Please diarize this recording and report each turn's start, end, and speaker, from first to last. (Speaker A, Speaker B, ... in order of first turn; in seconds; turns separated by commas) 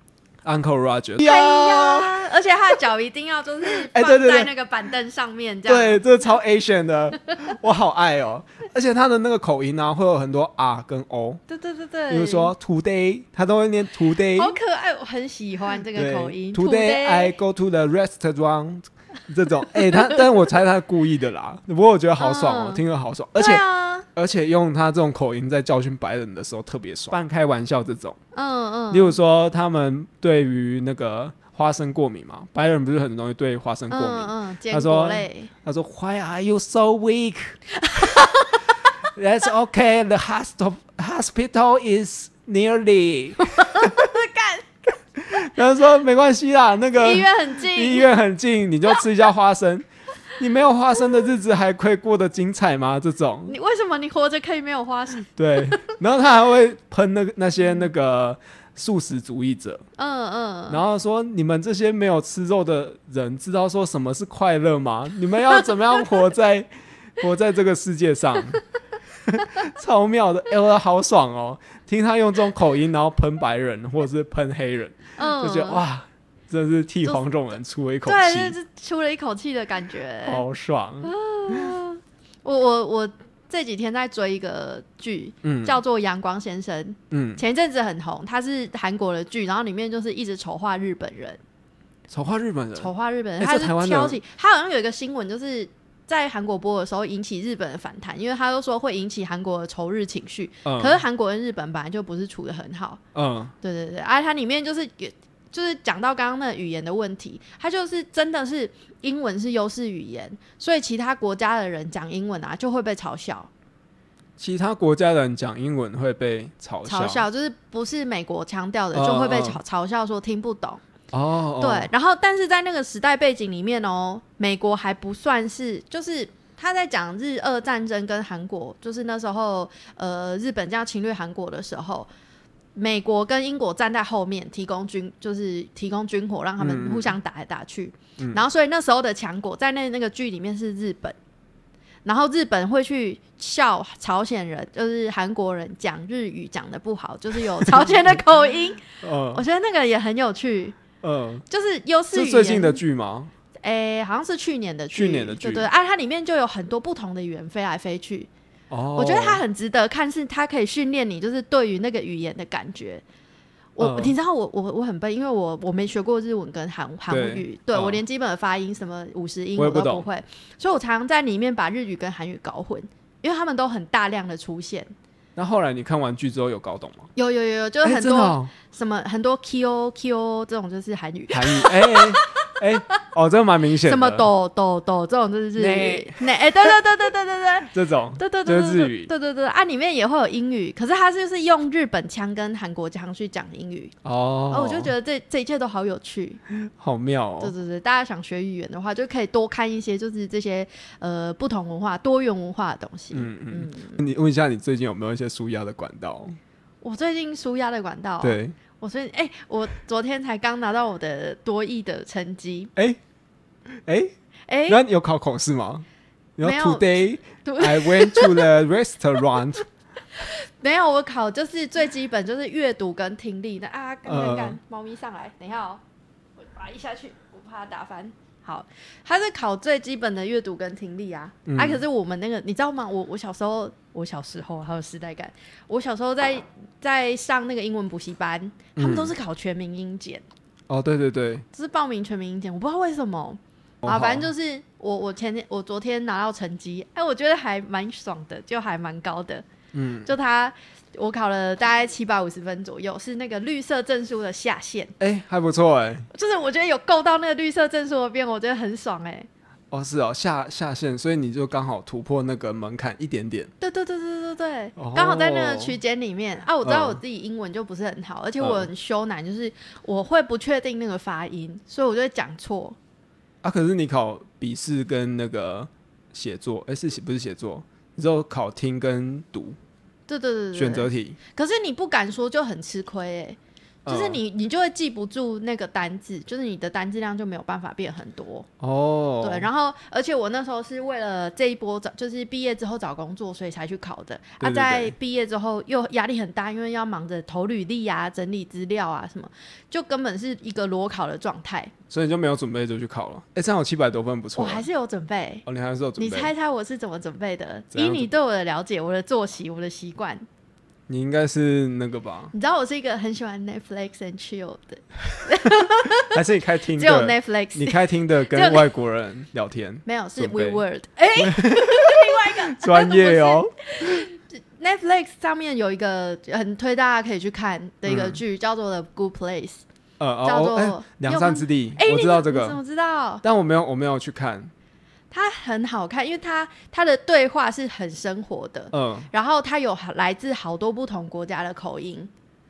Speaker A: 0.4-2.3, Speaker B: 1.2-6.0, Speaker A: 3.8-4.5, Speaker A: 5.7-11.4, Speaker B: 11.5-12.5, Speaker A: 12.1-14.6, Speaker B: 14.3-17.4, Speaker A: 15.9-28.2, Speaker B: 19.8-20.2, Speaker B: 22.2-22.8, Speaker B: 23.4-24.1, Speaker B: 28.3-29.2, Speaker A: 28.9-38.4, Speaker B: 33.9-35.5, Speaker B: 37.8-38.7, Speaker A: 39.1-44.1, Speaker B: 43.4-44.8, Speaker A: 45.3-49.9, Speaker B: 47.0-48.1, Speaker A: 50.4-53.5, Speaker B: 53.5-55.9, Speaker A: 55.4-59.8, Speaker B: 60.0-60.8, Speaker A: 60.7-68.6, Speaker A: 69.3-78.6, Speaker B: 75.2-75.8, Speaker B: 78.1-80.4, Speaker A: 80.3-81.8, Speaker B: 81.0-91.4, Speaker A: 85.4-85.8, Speaker A: 87.1-87.4, Speaker A: 92.1-94.2, Speaker B: 92.8-103.0, Speaker A: 100.6-101.0, Speaker A: 103.1-103.5, Speaker B: 103.6-113.5, Speaker A: 114.4-117.3, Speaker B: 116.9-120.8, Speaker A: 118.9-119.6, Speaker A: 121.1-121.9, Speaker B: 121.6-132.1, Speaker B: 132.8-141.2, Speaker A: 136.6-137.2, Speaker B: 142.1-150.8, Speaker A: 147.6-148.2, Speaker A: 148.9-149.4, Speaker A: 151.0-151.4, Speaker B: 151.5-152.8, Speaker A: 152.1-153.3, Speaker B: 153.6-158.3, Speaker A: 154.9-155.7, Speaker A: 158.7-159.4, Speaker B: 158.9-163.0, Speaker B: 163.8-174.9, Speaker A: 163.8-164.1, Speaker A: 167.1-168.0, Speaker A: 169.6-170.1, Speaker A: 175.4-177.1, Speaker B: 177.2-182.5, Speaker A: 177.8-178.5, Speaker A: 181.3-184.3, Speaker B: 183.8-193.9, Speaker A: 185.6-186.8, Speaker A: 187.6-189.1, Speaker A: 194.0-194.9, Speaker B: 194.5-196.4, Speaker A: 196.5-197.5, Speaker B: 197.4-204.0, Speaker A: 203.1-206.4, Speaker B: 206.8-212.7, Speaker A: 208.2-208.6, Speaker A: 213.8-214.1, Speaker B: 214.5-214.8, Speaker A: 214.7-215.9, Speaker A: 216.4-219.6, Speaker B: 216.4-218.6, Speaker B: 220.2-225.8, Speaker A: 224.1-224.6, Speaker B: 226.4-240.2, Speaker A: 231.4-231.8, Speaker A: 238.8-239.1, Speaker A: 240.7-241.4, Speaker B: 241.5-249.4, Speaker A: 243.8-244.3, Speaker A: 249.7-250.1, Speaker B: 250.1-254.9, Speaker A: 255.0-256.1, Speaker B: 256.1-259.3, Speaker A: 259.7-263.5, Speaker B: 263.6-272.8, Speaker A: 264.8-265.8, Speaker A: 266.6-267.0, Speaker A: 268.4-268.7, Speaker A: 273.4-279.6, Speaker B: 280.1-288.5, Speaker A: 280.6-281.2, Speaker A: 283.9-284.2, Speaker A: 288.6-289.5, Speaker B: 289.2-301.7, Speaker A: 294.4-294.9, Speaker A: 301.9-304.7, Speaker B: 304.4-305.4, Speaker A: 305.4-306.3, Speaker B: 306.0-310.3, Speaker A: 307.7-308.1, Speaker A: 310.9-312.3, Speaker B: 312.3-316.2, Speaker A: 316.1-320.6, Speaker B: 316.8-318.7, Speaker B: 319.9-329.6, Speaker A: 321.1-324.0, Speaker A: 327.9-328.2, Speaker A: 330.0-332.6, Speaker B: 330.2-333.2, Speaker A: 333.2-334.5, Speaker B: 335.1-342.1, Speaker A: 338.7-339.1